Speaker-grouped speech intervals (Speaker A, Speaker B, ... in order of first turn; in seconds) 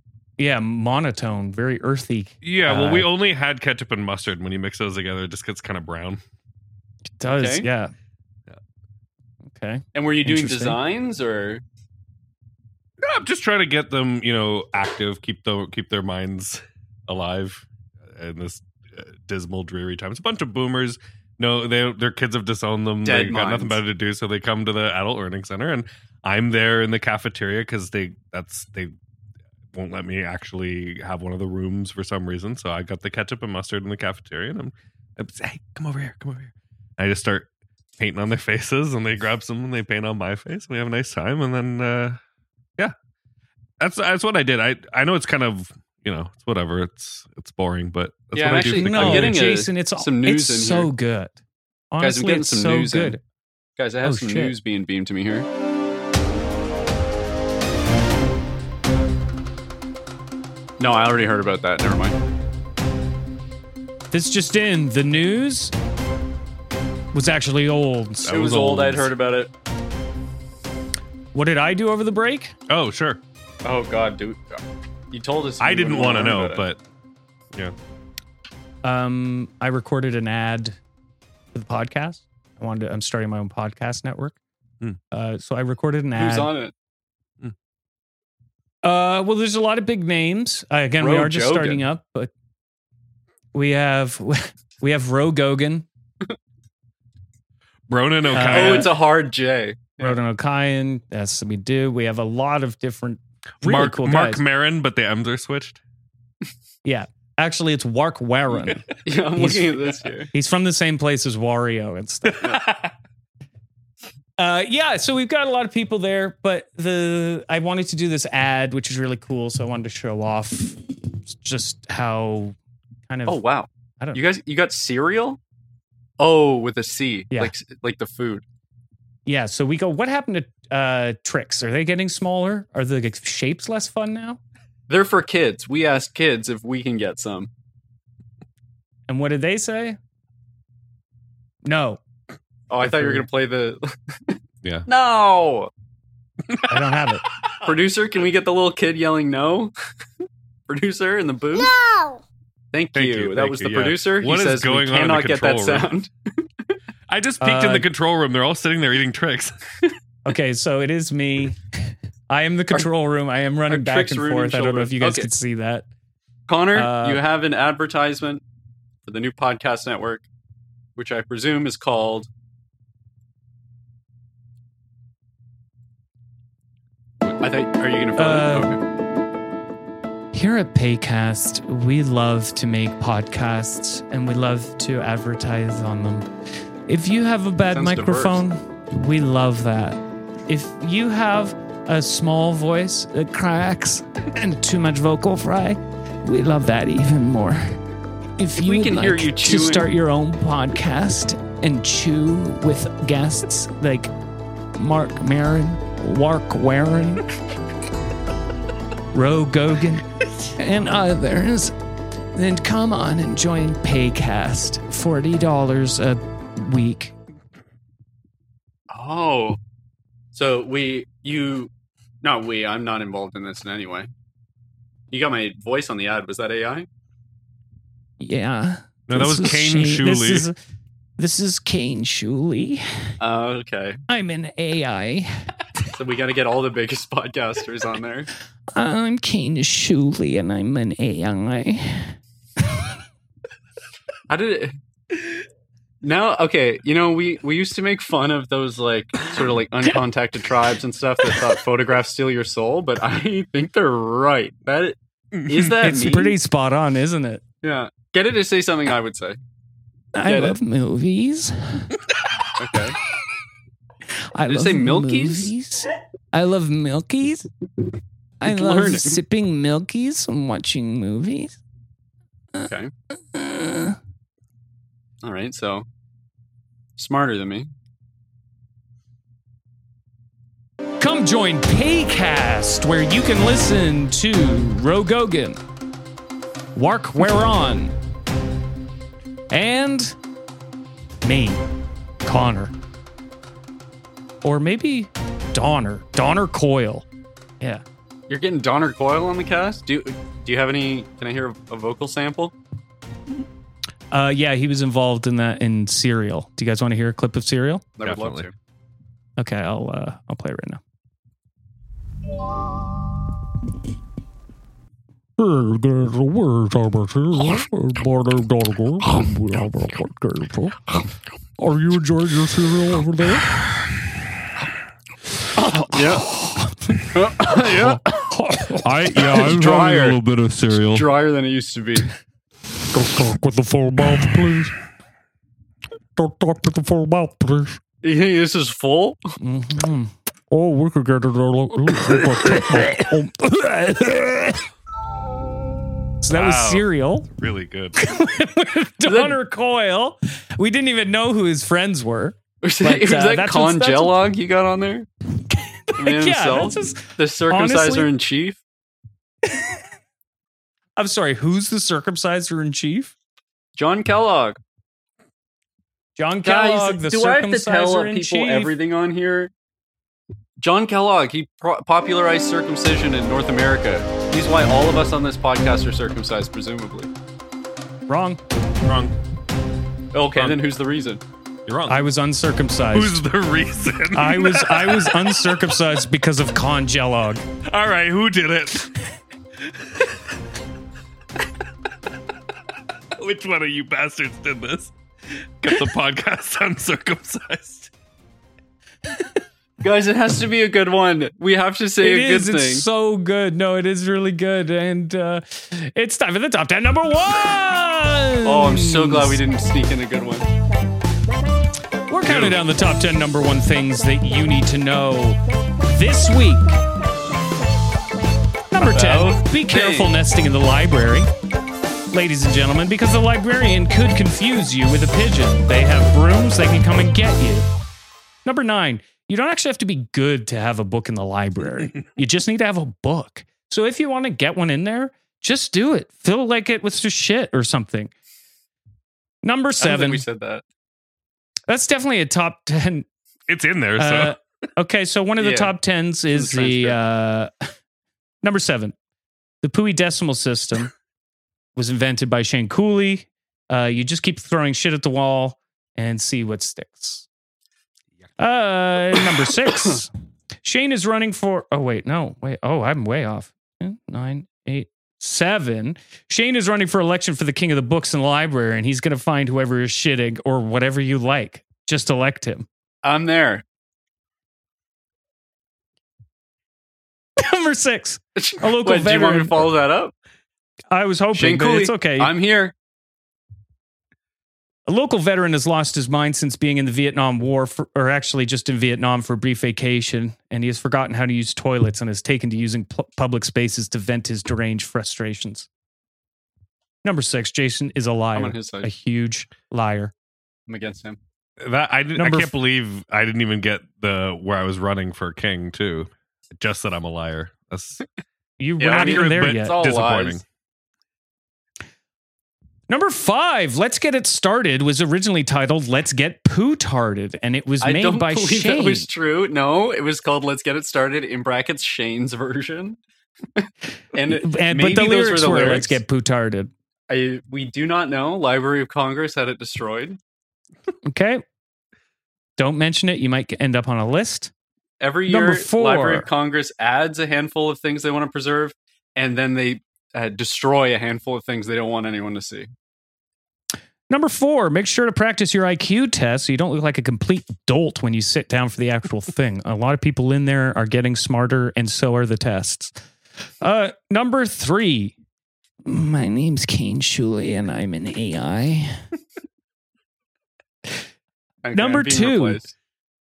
Speaker A: 0.4-3.1, 7.2-7.9, 9.5-10.8, 48.5-51.4, 51.9-53.2, 54.0-54.5, 64.1-65.7, 67.1-69.0, 71.3-72.5, 78.8-80.8, 81.5-84.4, 85.1-86.5, 88.8-92.3, 93.5-95.8, 98.3-98.9, 100.0-104.4, 106.8-112.5, 114.4-122.5, 123.1-123.4, 129.2-134.4, 139.1-140.0, 141.6-142.0, 142.8-143.3, 146.7-147.2, 157.4-157.8, 160.2-161.6, 162.3-165.9, 166.7-167.2, 178.2-178.8, 180.3-186.2, 186.9-197.8, 198.4-204.1, 204.7-207.2, 209.1-211.7, 212.3-217.1, 228.2-230.6, 231.2-232.8, 234.1-235.3, 238.7-242.2, 255.8-257.4, 260.1-261.9, 264.3-267.5, 268.4-271.6, 273.3-274.0, 281.0-285.6, 286.7-287.9, 289.5-290.1, 291.2-291.6, 292.2-292.7, 294.4-297.1, 304.1-307.9, 309.4-310.8, 339.4-340.1, 346.2-347.3, 347.9-354.1, 355.5-358.1, 359.4-359.8, 361.0-363.1, 366.2-368.7, 378.1-378.4, 381.9-383.2, 384.1-387.4, 402.0-409.4, 412.1-416.8, 418.7-421.3, 422.1-427.7, 428.4-438.1, 439.4-440.2, 441.7-443.1, 443.9-447.5, 448.4-448.9, 449.6-450.9, 451.8-457.3, 458.4-460.1, 460.6-472.7, 477.4-479.6, 480.9-482.3, 484.9-495.7, 497.0-500.1, 502.2-502.5, 508.6-509.9, 512.9-519.1, 524.4-526.7, 531.0-531.4, 532.6-534.5, 535.3-536.3, 544.1-553.0, 553.6-555.1, 555.8-559.0, 561.7-562.6
Speaker B: 2.4-6.2, 13.0-28.9, 29.7-42.2, 43.8-49.4, 72.7-73.2, 75.6-76.8, 97.9-98.9, 103.6-105.8, 112.3-112.9, 152.9-155.9, 157.1-159.5, 229.1-230.5, 255.3-255.7, 308.0-308.5, 328.8-331.1, 346.3-348.0, 378.8-379.1, 380.3-380.6, 381.7-382.0, 382.9-385.4, 387.6-388.9, 389.7-390.1, 393.1-397.9, 412.2-412.6, 443.5-444.4, 501.6-508.0, 508.8-510.4
Speaker C: 7.3-7.7, 9.9-11.6, 23.0-23.8, 48.3-50.9, 52.0-53.2, 53.8-55.5, 60.8-62.1, 68.3-69.5, 73.6-76.6, 86.2-86.7, 91.0-91.8, 98.3-100.2, 109.0-110.3, 123.3-125.4, 126.2-128.4, 134.9-137.5, 142.7-145.7, 147.6-149.7, 150.7-151.8, 152.7-156.1, 163.7-165.3, 166.5-168.4, 169.0-170.2, 170.9-172.3, 177.4-178.8, 187.7-188.4, 198.6-199.9, 218.9-219.6, 220.3-221.7, 222.2-224.1, 225.1-226.9, 233.2-234.0, 235.9-238.3, 244.3-244.7, 246.0-256.4, 257.6-259.4, 260.3-260.6, 262.6-263.0, 264.5-265.5, 268.4-269.2, 275.2-275.9, 277.0-277.7, 298.3-302.5, 308.0-308.5, 325.9-326.3, 327.1-328.0, 329.3-330.2, 330.7-332.1, 338.0-339.2, 349.0-349.4, 352.6-355.1, 355.9-358.6, 363.7-364.6, 366.4-369.5, 370.6-377.1, 380.1-381.2, 399.8-402.9, 408.4-410.5, 418.8-420.1, 439.8-440.6, 445.4-445.7, 446.3-447.0, 473.0-473.6, 478.4-480.1, 481.3-482.7, 498.4-498.9, 500.7-501.2, 508.8-510.4, 517.8-523.0, 523.5-526.0, 527.1-530.2, 535.0-542.7, 561.6-562.7
Speaker D: 315.4-321.1, 321.6-323.5, 327.7-330.2, 332.9-334.8, 336.1-337.8, 340.5-344.5